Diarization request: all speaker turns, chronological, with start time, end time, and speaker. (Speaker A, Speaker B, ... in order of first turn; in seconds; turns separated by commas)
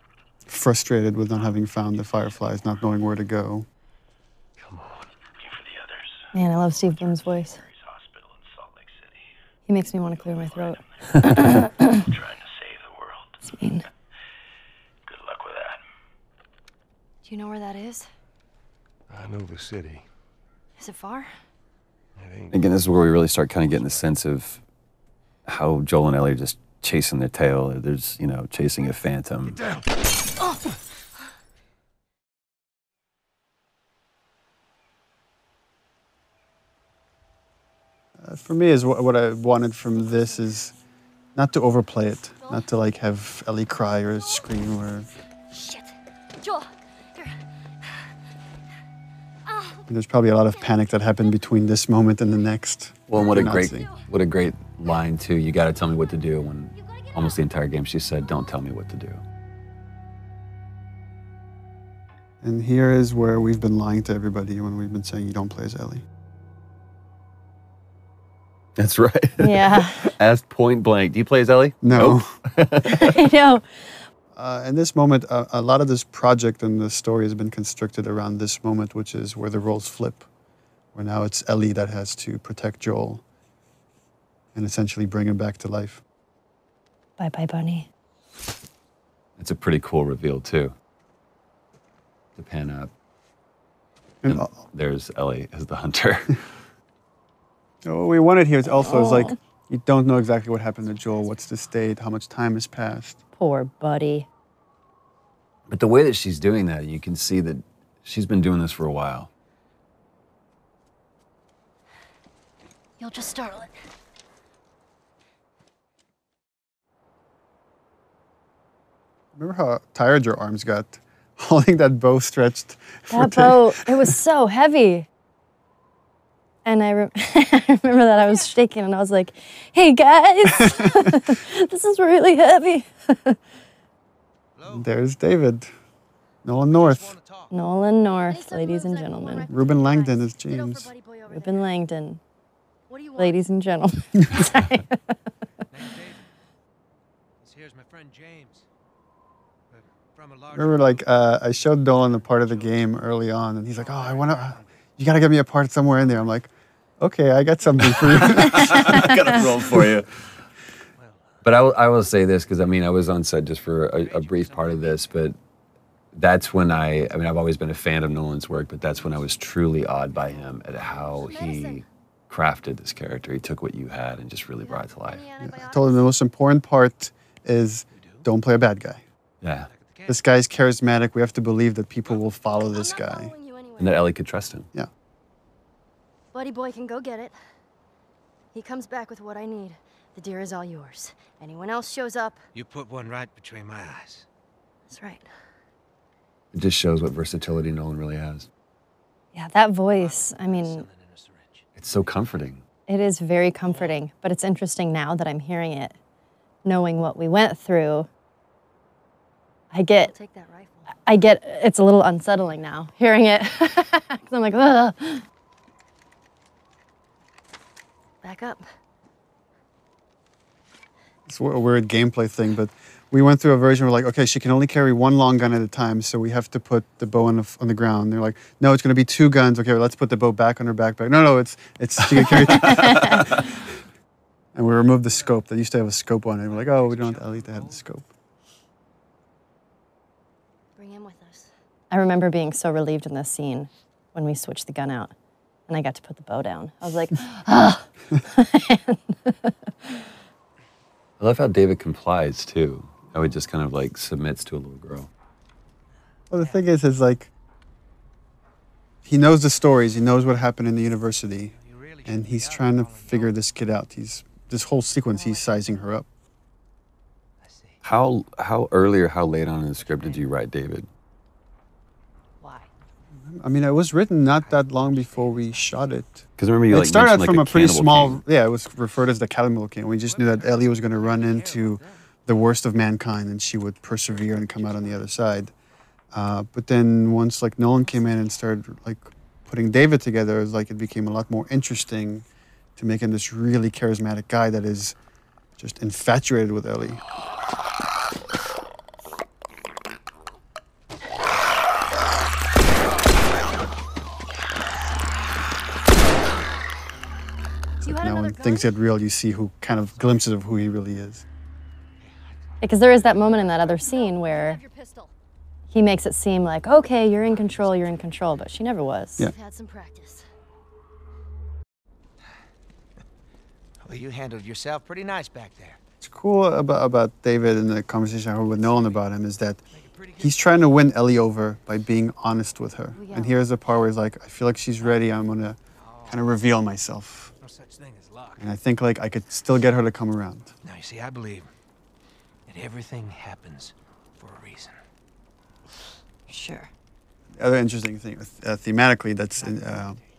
Speaker A: 0.5-3.7, Speaker B: 4.6-4.9, Speaker C: 6.3-7.6, Speaker C: 9.7-12.0, Speaker C: 13.4-13.9, Speaker D: 17.2-18.1, Speaker E: 19.1-20.0, Speaker D: 20.8-21.3, Speaker E: 22.1-24.1, Speaker B: 22.5-24.6, Speaker B: 25.4-29.6, Speaker E: 29.4-29.9, Speaker A: 38.2-40.7, Speaker A: 41.3-45.1, Speaker D: 42.4-42.8, Speaker D: 45.5-48.0, Speaker D: 49.5-49.9, Speaker A: 49.9-53.9, Speaker B: 53.1-59.2, Speaker D: 53.4-54.0, Speaker D: 56.7-57.5, Speaker D: 58.2-58.5, Speaker A: 62.4-66.0, Speaker B: 68.8-73.2, Speaker C: 69.4-70.1, Speaker A: 71.8-72.3, Speaker C: 72.9-73.9, Speaker A: 74.3-80.2, Speaker A: 80.9-83.2, Speaker A: 84.5-86.0, Speaker C: 87.2-87.9, Speaker B: 89.4-90.7, Speaker B: 92.3-92.9, Speaker A: 94.2-94.5, Speaker B: 94.3-96.5, Speaker A: 97.8-103.2, Speaker C: 98.6-99.3, Speaker C: 103.4-104.3, Speaker B: 105.7-109.3, Speaker D: 113.0-113.7, Speaker A: 119.3-124.1, Speaker C: 123.1-125.1, Speaker C: 126.6-133.4, Speaker D: 128.2-128.5, Speaker A: 130.6-130.9, Speaker F: 134.6-134.9, Speaker A: 134.7-135.7, Speaker A: 136.4-137.2, Speaker F: 136.5-137.5, Speaker C: 137.5-139.5, Speaker D: 138.3-141.7, Speaker A: 139.5-140.9, Speaker C: 141.3-142.2, Speaker D: 142.9-143.4, Speaker C: 143.2-145.0, Speaker F: 145.7-146.3, Speaker F: 147.4-148.7, Speaker F: 149.7-153.0, Speaker A: 150.5-159.9, Speaker F: 153.7-154.7, Speaker B: 157.8-160.2, Speaker F: 161.0-161.4, Speaker B: 161.4-165.4, Speaker F: 163.9-165.2, Speaker B: 166.1-175.2, Speaker D: 171.0-171.8, Speaker D: 174.6-176.1, Speaker A: 175.4-179.0, Speaker F: 177.9-178.2, Speaker B: 179.4-179.7, Speaker F: 179.6-180.2, Speaker A: 180.1-183.3, Speaker D: 182.5-184.1, Speaker B: 183.8-184.7, Speaker D: 186.3-187.4, Speaker D: 188.5-192.4, Speaker F: 192.5-194.2, Speaker D: 194.9-195.2, Speaker B: 196.5-198.5, Speaker C: 199.3-200.8, Speaker F: 199.9-201.6, Speaker B: 201.8-202.6, Speaker C: 202.9-205.9, Speaker F: 203.6-204.0, Speaker C: 206.6-208.1, Speaker C: 209.7-210.1, Speaker D: 210.0-210.9, Speaker C: 211.1-215.2, Speaker D: 218.2-218.6, Speaker A: 221.3-233.5, Speaker C: 232.6-233.1, Speaker A: 234.5-238.0, Speaker F: 235.1-235.4, Speaker F: 236.4-237.8, Speaker D: 240.8-241.5, Speaker C: 241.9-245.1, Speaker C: 245.7-250.0, Speaker B: 251.2-255.1, Speaker A: 256.3-257.3, Speaker F: 256.3-256.6, Speaker A: 259.0-266.1, Speaker F: 261.6-263.4, Speaker D: 265.1-265.9, Speaker F: 267.4-267.8, Speaker B: 267.8-270.9, Speaker F: 269.8-270.2, Speaker D: 272.4-272.7, Speaker A: 273.3-285.5, Speaker F: 274.3-275.9, Speaker B: 276.4-278.2, Speaker F: 280.0-282.0, Speaker F: 283.8-285.1, Speaker A: 286.1-294.9, Speaker A: 295.6-297.0, Speaker A: 307.8-311.2, Speaker D: 307.8-308.7, Speaker F: 312.0-312.4, Speaker C: 312.6-314.6, Speaker F: 312.9-313.5, Speaker D: 313.7-315.1, Speaker C: 315.7-319.3, Speaker F: 317.2-318.1, Speaker D: 319.2-320.2, Speaker F: 323.8-325.8, Speaker A: 326.0-329.6, Speaker F: 329.7-330.9, Speaker A: 330.2-337.3, Speaker D: 332.9-333.4, Speaker F: 335.8-336.4, Speaker F: 337.4-338.5, Speaker A: 338.4-340.5, Speaker F: 340.6-341.5, Speaker F: 342.5-344.8, Speaker D: 346.3-346.7, Speaker A: 347.4-350.0, Speaker F: 349.3-350.0